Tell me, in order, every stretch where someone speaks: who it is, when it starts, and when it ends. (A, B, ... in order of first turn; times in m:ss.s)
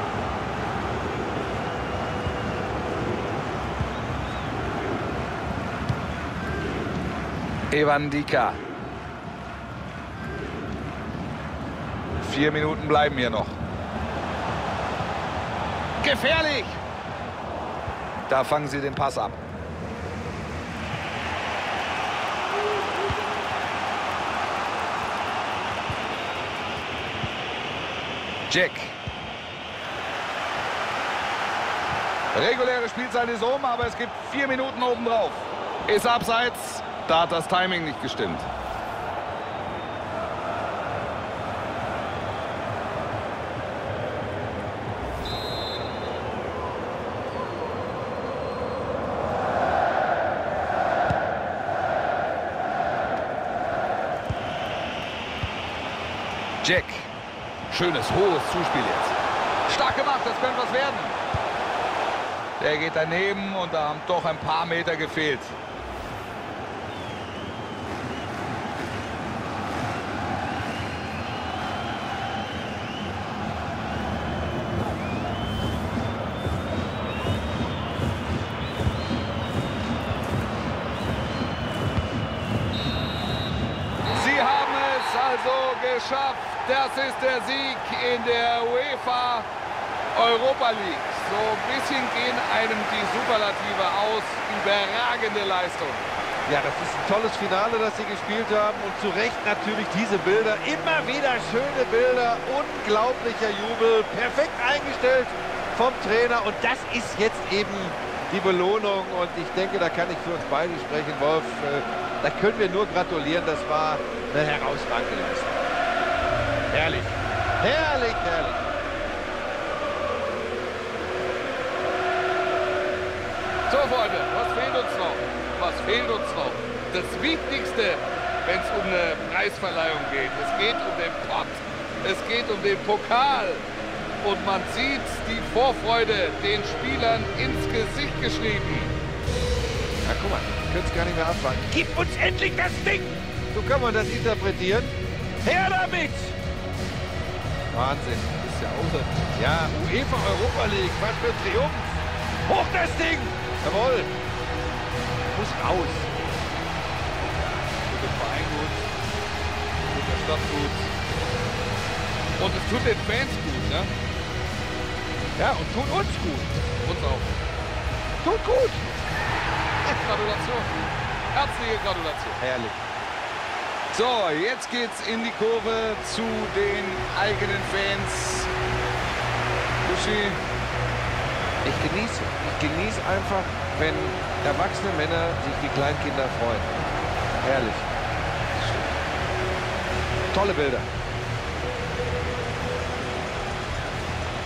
0:07.7-0:08.6 A
0:12.2-0:13.6 A
0:16.0-0:16.8 A
0:18.3-0:19.4 A
0:28.5-0:29.0 A
0:32.3-0:38.5 A
0:56.6-0:57.1 A
0:57.7-1:01.2 A
1:02.6-1:05.6 A
1:24.1-1:29.5 A
1:30.1-1:36.0 A
1:36.5-1:55.6 B
1:56.7-1:58.7 B
2:03.7-2:13.6 A
2:14.2-2:18.9 A
2:20.0-2:26.4 B
2:27.7-2:28.4 B
2:28.4-2:29.1 A
2:29.4-2:34.1 B
2:35.3-2:36.1 B
2:37.9-2:38.8 A
2:39.9-2:40.9 A
2:42.4-2:43.9 A
2:45.4-2:46.6 B
2:46.8-2:47.3 A
2:48.2-2:48.8 B
2:49.9-2:50.7 A
2:51.3-2:52.4 A
2:52.4-2:52.8 B
2:53.9-2:58.5 A
2:59.8-3:00.4 A
3:01.6-3:06.8 B
3:07.4-3:07.9 B
3:08.6-3:09.0 B
3:10.3-3:10.9 B